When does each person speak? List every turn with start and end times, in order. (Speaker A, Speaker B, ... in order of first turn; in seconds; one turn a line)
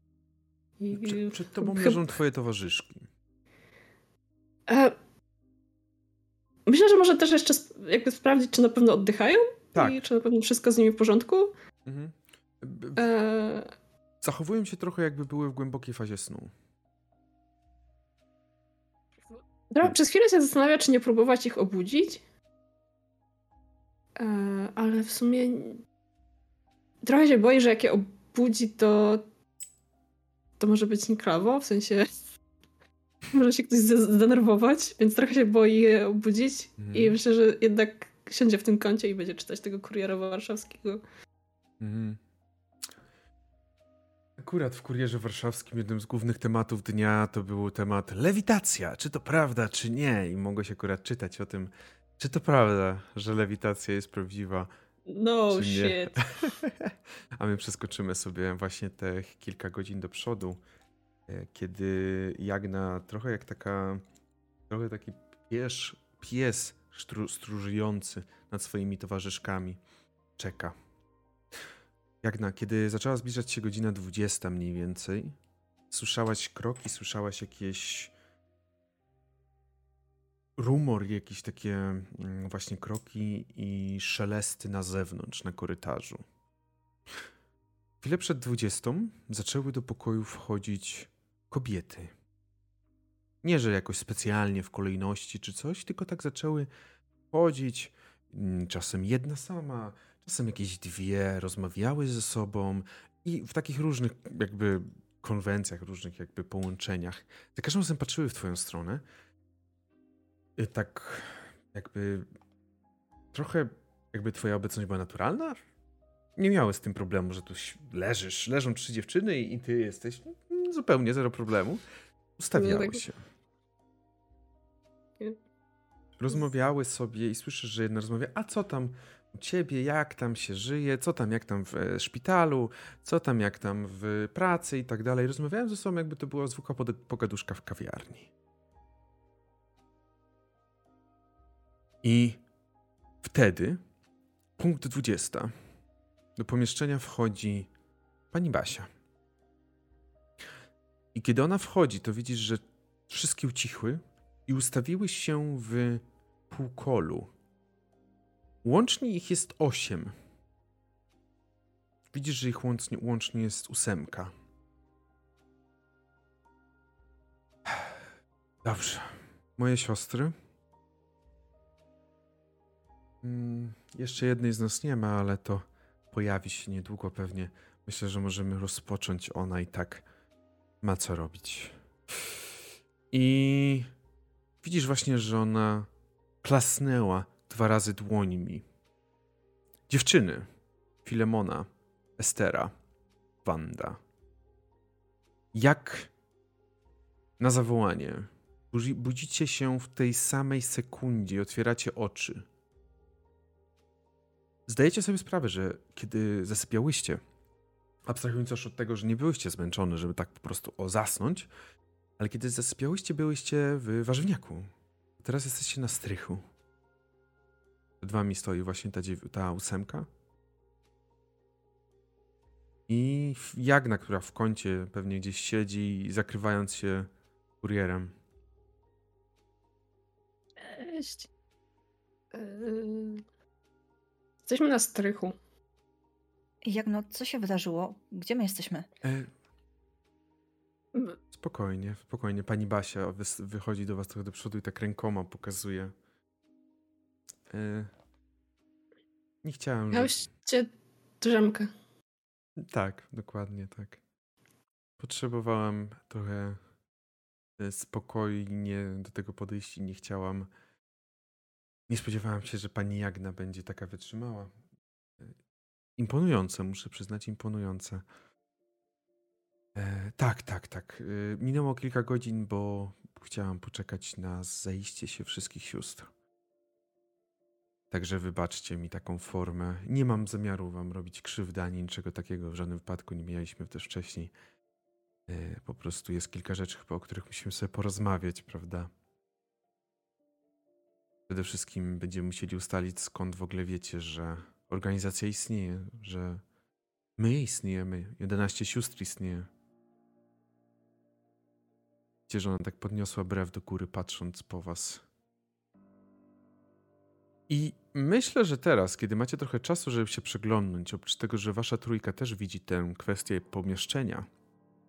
Speaker A: 0.8-2.0
Speaker B: 0.9-3.1
Speaker A: 4.7-5.0
Speaker A: 6.7-11.5
Speaker B: 11.9-13.0
Speaker A: 13.0-13.7
Speaker B: 14.2-16.5
Speaker A: 19.7-22.2
Speaker A: 24.2-25.8
Speaker A: 27.0-29.3
Speaker A: 30.6-32.2
Speaker A: 33.3-41.0
Speaker B: 36.8-37.2
Speaker B: 41.8-42.2
Speaker B: 44.4-54.7
Speaker A: 55.1-56.4
Speaker B: 55.5-60.6
Speaker B: 61.3-64.0
Speaker B: 64.7-69.8
Speaker B: 70.4-70.8
Speaker B: 72.2-75.4
Speaker B: 75.9-78.1
Speaker B: 80.6-86.2
Speaker B: 88.0-92.1
Speaker B: 93.4-96.7
Speaker B: 97.3-109.0
Speaker B: 110.6-112.3
Speaker B: 113.3-115.6
Speaker B: 116.4-121.8
Speaker B: 122.4-123.2
Speaker A: 122.5-123.0
Speaker B: 126.2-138.3
Speaker B: 142.0-142.4
Speaker B: 143.2-143.8
Speaker B: 144.6-145.5
Speaker B: 146.4-147.7
Speaker B: 148.3-148.9
Speaker B: 151.1-157.3
Speaker B: 158.6-160.1
Speaker B: 162.1-164.3
Speaker B: 167.7-167.9
Speaker B: 168.6-170.3
Speaker B: 173.2-180.1
Speaker B: 180.8-181.8
Speaker B: 183.1-183.9
Speaker B: 184.6-185.9
Speaker B: 186.4-188.7
Speaker B: 189.9-190.5
Speaker B: 191.1-192.7
Speaker B: 193.4-194.0
Speaker B: 195.5-196.1
Speaker B: 197.4-202.5
Speaker B: 204.7-207.2
Speaker B: 208.1-211.5
Speaker B: 212.2-216.4
Speaker B: 218.0-220.1
Speaker B: 222.9-227.1
Speaker B: 227.6-228.1
Speaker A: 230.6-231.3
Speaker A: 232.3-233.2
Speaker A: 234.4-235.4
Speaker C: 236.6-238.9
Speaker B: 239.0-239.3
Speaker B: 241.3-245.9
Speaker B: 247.5-247.9
Speaker B: 249.4-250.2
Speaker A: 249.9-251.7
Speaker B: 252.7-254.0
Speaker B: 255.0-256.6
Speaker B: 257.6-260.5
Speaker B: 261.9-264.5
Speaker B: 266.0-268.0
Speaker B: 269.8-276.1
Speaker B: 277.9-284.3
Speaker B: 285.3-288.9
Speaker B: 291.3-296.4
Speaker B: 297.2-299.5
Speaker B: 302.3-305.0
Speaker B: 307.5-314.3